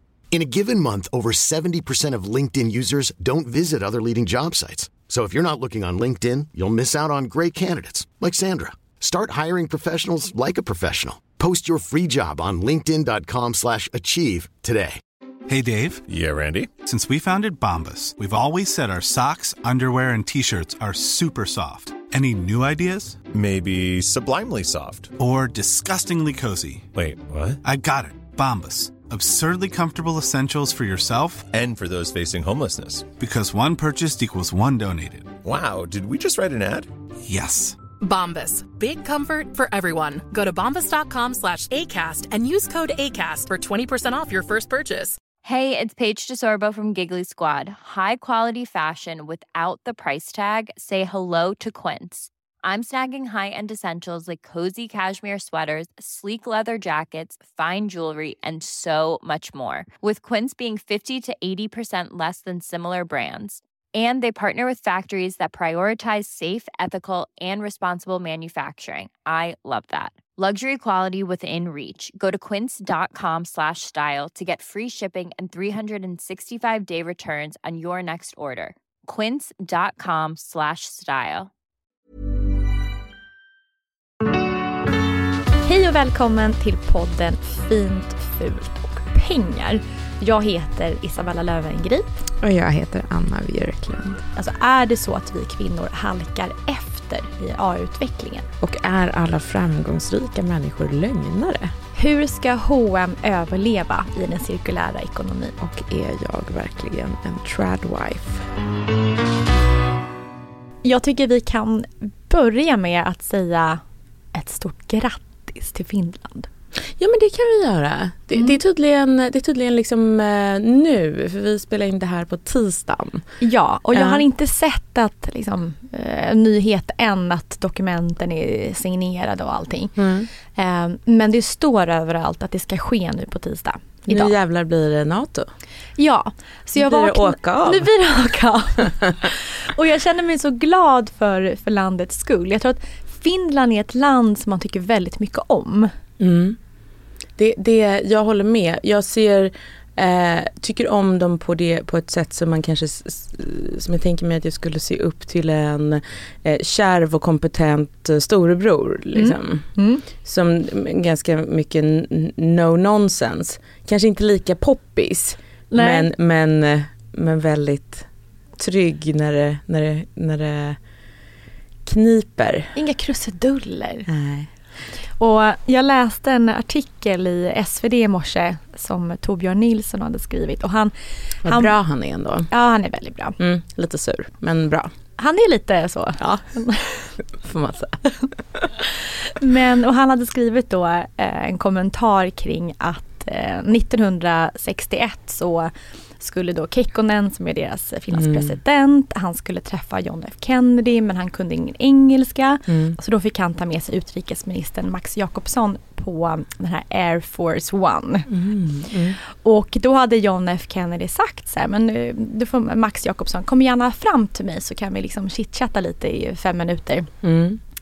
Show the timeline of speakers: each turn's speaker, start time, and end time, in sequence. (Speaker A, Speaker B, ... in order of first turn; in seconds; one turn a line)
Speaker A: 0.3-15.0
Speaker B: 15.5-16.0
Speaker C: 16.1-16.7
Speaker B: 16.8-23.3
Speaker C: 23.3-25.1
Speaker B: 25.2-26.9
Speaker C: 26.9-27.6
Speaker B: 27.6-31.5
Speaker C: 31.5-33.1
Speaker B: 33.2-35.3
Speaker C: 35.4-36.9
Speaker B: 37.2-37.8
Speaker D: 38.0-45.2
Speaker E: 45.4-81.5
Speaker F: 85.6-92.2
Speaker G: 92.4-94.2
Speaker F: 94.3-98.5
Speaker G: 98.6-101.7
Speaker F: 102.0-105.5
Speaker G: 105.6-108.5
Speaker F: 110.8-113.8
Speaker F: 114.3-116.5
Speaker G: 117.0-123.2
Speaker F: 123.4-129.9
Speaker G: 123.9-124.2
Speaker G: 130.0-130.3
Speaker F: 130.5-134.3
Speaker G: 134.1-135.5
Speaker F: 136.0-145.9
Speaker G: 136.8-137.9
Speaker G: 146.2-146.6
Speaker G: 147.4-170.8
Speaker F: 159.1-160.0
Speaker F: 165.7-166.1
Speaker G: 171.8-172.7
Speaker F: 172.7-174.1
Speaker G: 174.1-174.5
Speaker F: 175.2-181.7
Speaker G: 181.4-182.5
Speaker F: 182.5-183.4
Speaker G: 183.4-184.9
Speaker F: 185.2-187.1
Speaker G: 186.2-186.5
Speaker G: 187.3-188.7
Speaker F: 188.8-208.3
Speaker G: 198.1-198.5
Speaker G: 202.7-203.0
Speaker G: 208.3-209.2
Speaker F: 209.2-217.1
Speaker G: 217.2-217.6